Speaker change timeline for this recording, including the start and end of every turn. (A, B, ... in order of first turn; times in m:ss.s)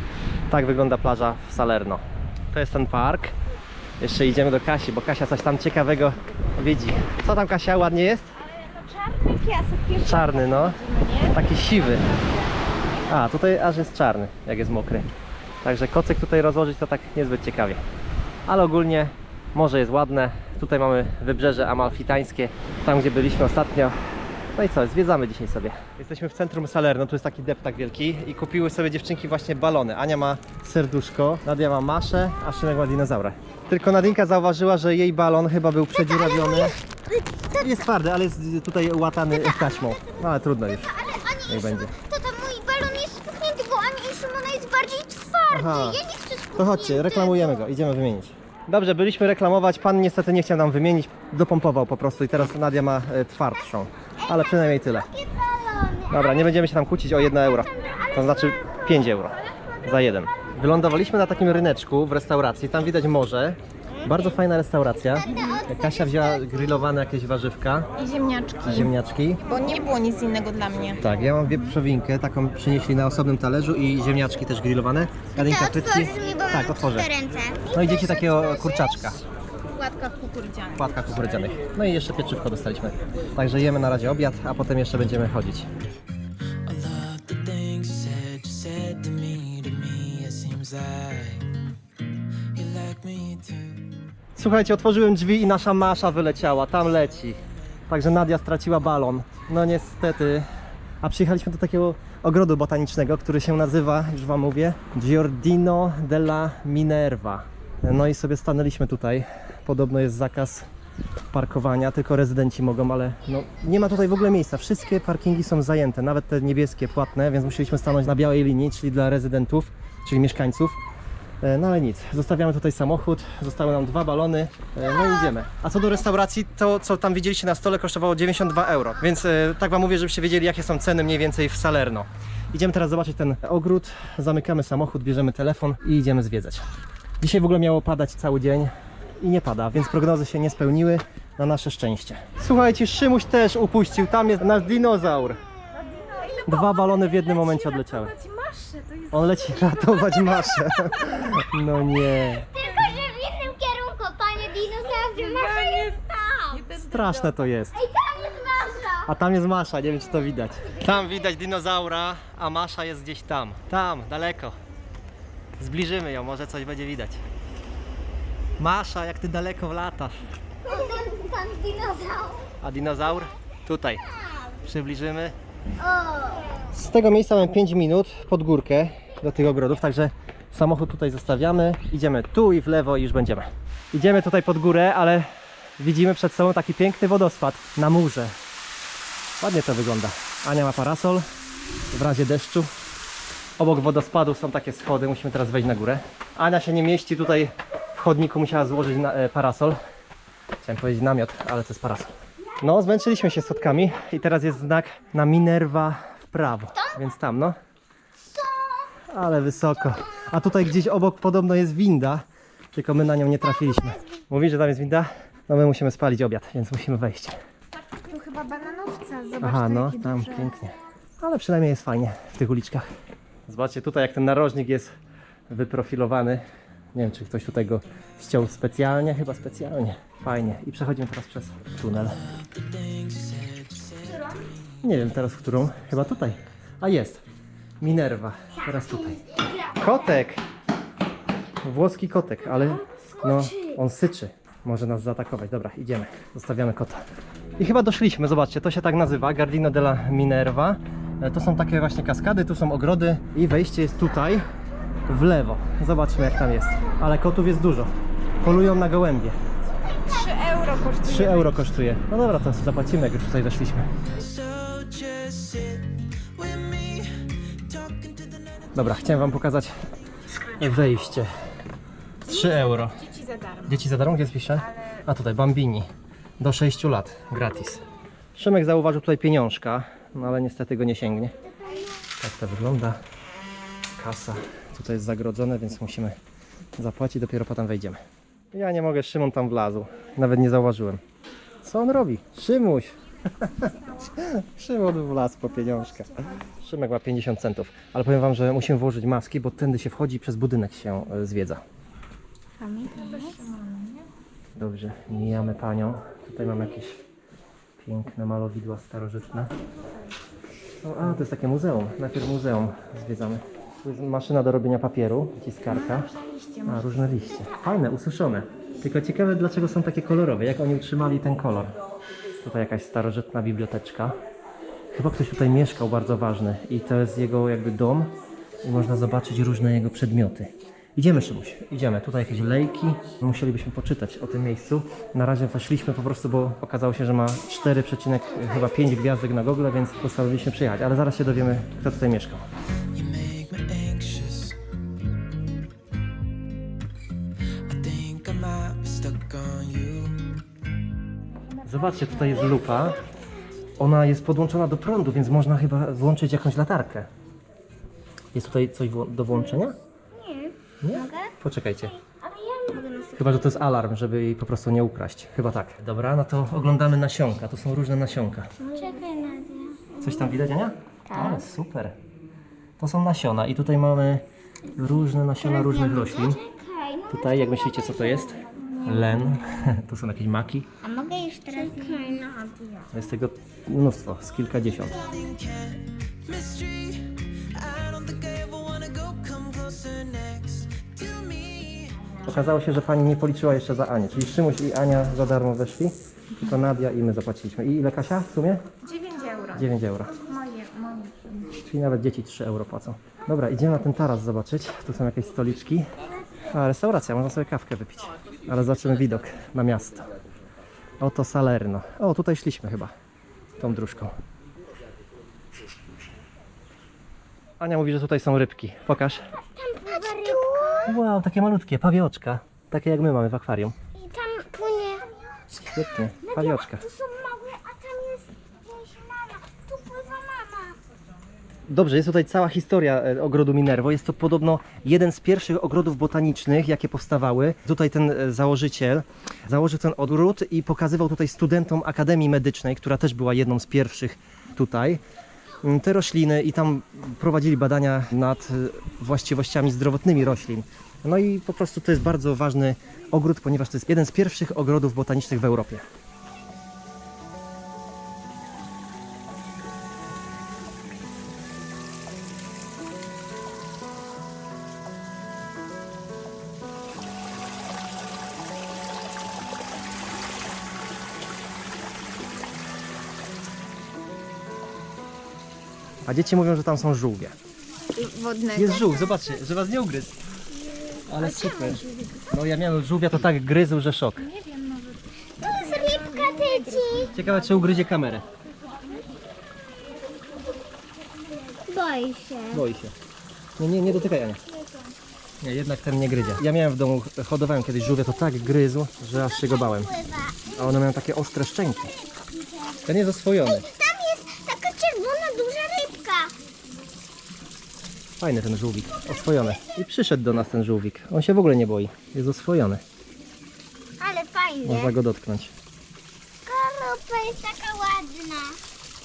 0:00.5-0:03.3 A
0:04.0-0:08.3 A
0:08.4-0:12.6 B
0:10.0-0:10.8 A
0:11.3-0:12.1 A
0:13.1-0:15.1 A
0:15.6-0:17.8 A
0:18.5-0:36.8 A
0:35.9-0:37.7 C
0:37.6-0:42.0 A
0:39.3-0:47.6 C
0:45.5-0:46.0 A
0:46.6-0:55.1 A
0:54.3-0:56.5 C
0:56.1-1:07.9 A
0:57.6-0:58.5 C
1:05.2-1:06.4 C
1:05.2-1:05.6 B
1:08.0-1:08.9 B
1:08.6-1:09.4 A
1:09.5-1:11.8 B
1:11.0-1:17.1 A
1:15.4-1:19.1 C
1:17.7-1:19.2 A
1:19.7-1:21.0 B
1:20.8-1:25.7 A
1:26.7-1:31.6 D
1:32.5-1:34.0 D
1:34.4-1:40.5 A
1:41.0-1:50.7 A
1:51.3-2:00.8 A
2:01.4-2:16.7 A
2:17.2-2:25.4 A
2:25.8-2:30.4 B
2:26.5-2:28.1 A
2:29.1-2:32.5 A
2:32.2-2:36.6 C
2:35.2-2:37.4 B
2:36.8-2:37.8 A
2:37.7-2:39.1 C
2:39.0-2:44.6 A
2:45.6-2:47.2 A
2:48.6-2:50.2 A
2:50.6-2:52.5 C
2:52.6-2:54.0 A
2:54.6-2:55.4 A
2:55.8-2:56.5 C
2:56.7-3:08.3 A
3:09.4-3:11.2 A
3:11.9-3:12.7 A
3:13.6-3:19.8 A
3:20.6-3:27.6 A
3:26.8-3:27.0 C
3:28.3-3:28.9 C
3:29.1-3:37.4 A
3:33.8-3:34.1 C
3:37.8-3:40.6 B
3:39.4-3:42.9 A
3:43.5-3:44.9 A
3:45.5-3:46.4 A
3:46.9-3:52.2 A
3:52.0-3:54.8 D
3:54.8-3:57.2 A
3:57.8-4:00.4 A
4:01.6-4:07.0 A
4:02.9-4:03.7 C
4:07.6-4:14.4 A
4:15.1-4:19.4 A
4:20.0-4:21.7 B
4:21.0-4:23.9 A
4:24.1-4:29.4 D
4:28.8-4:29.8 A
4:30.5-4:31.3 A
4:32.2-4:33.0 A
4:32.3-4:33.8 B
4:33.6-4:35.9 A
4:36.4-4:37.8 A
4:38.4-4:41.3 A
4:41.6-4:41.9 C
4:42.2-4:43.0 A
4:44.0-4:46.2 A
4:46.8-4:48.0 A
4:48.5-4:51.0 A
4:51.6-5:01.6 A
5:02.6-5:03.4 C
5:02.9-5:04.1 B
5:04.6-5:07.0 A
5:07.8-5:09.5 A
5:10.8-5:16.1 A
5:15.7-5:16.9 B
5:16.6-5:21.7 A
5:22.4-5:24.2 A
5:24.9-5:42.5 A
5:42.9-5:44.6 D
5:47.6-5:50.4 D
5:51.6-5:53.0 A
5:53.8-5:57.1 A
5:58.3-5:59.8 A
6:00.1-6:01.4 C
6:00.8-6:02.0 A
6:02.0-6:03.5 C
6:03.2-6:08.5 A
6:08.6-6:10.4 C
6:10.0-6:12.0 A
6:11.1-6:11.5 C
6:12.8-6:16.4 A
6:15.4-6:19.1 C
6:17.1-6:20.7 A
6:20.8-6:22.9 C
6:21.6-6:22.1 B
6:22.9-6:25.0 A
6:24.9-6:32.1 D
6:32.3-6:38.6 A
6:38.8-6:41.5 B
6:39.6-6:40.2 A
6:41.5-6:45.9 A
6:46.5-6:50.1 A
6:51.0-6:52.9 A
6:53.6-6:54.2 A
6:57.6-6:59.3 A
6:59.4-7:01.0 C
7:00.4-7:00.7 B
7:00.8-7:03.8 A
7:04.0-7:05.1 C
7:05.5-7:06.8 A
7:06.3-7:10.8 C
7:11.7-7:25.0 A
7:25.6-7:35.8 A
7:56.0-7:57.4 A
7:57.9-7:59.4 B
7:58.6-8:00.2 A
8:01.1-8:04.2 A
8:01.2-8:02.3 B
8:04.2-8:07.8 B
8:05.4-8:07.1 C
8:07.2-8:08.2 A
8:11.5-8:12.7 C
8:12.5-8:12.9 A
8:13.6-8:14.4 A
8:14.4-8:14.9 C
8:15.4-8:19.9 A
8:19.1-8:20.6 C
8:20.6-8:22.0 A
8:22.8-8:23.7 A
8:23.4-8:26.3 C
8:28.2-8:32.8 A
8:34.0-8:35.0 C
8:34.6-8:35.5 A
8:36.4-8:38.6 C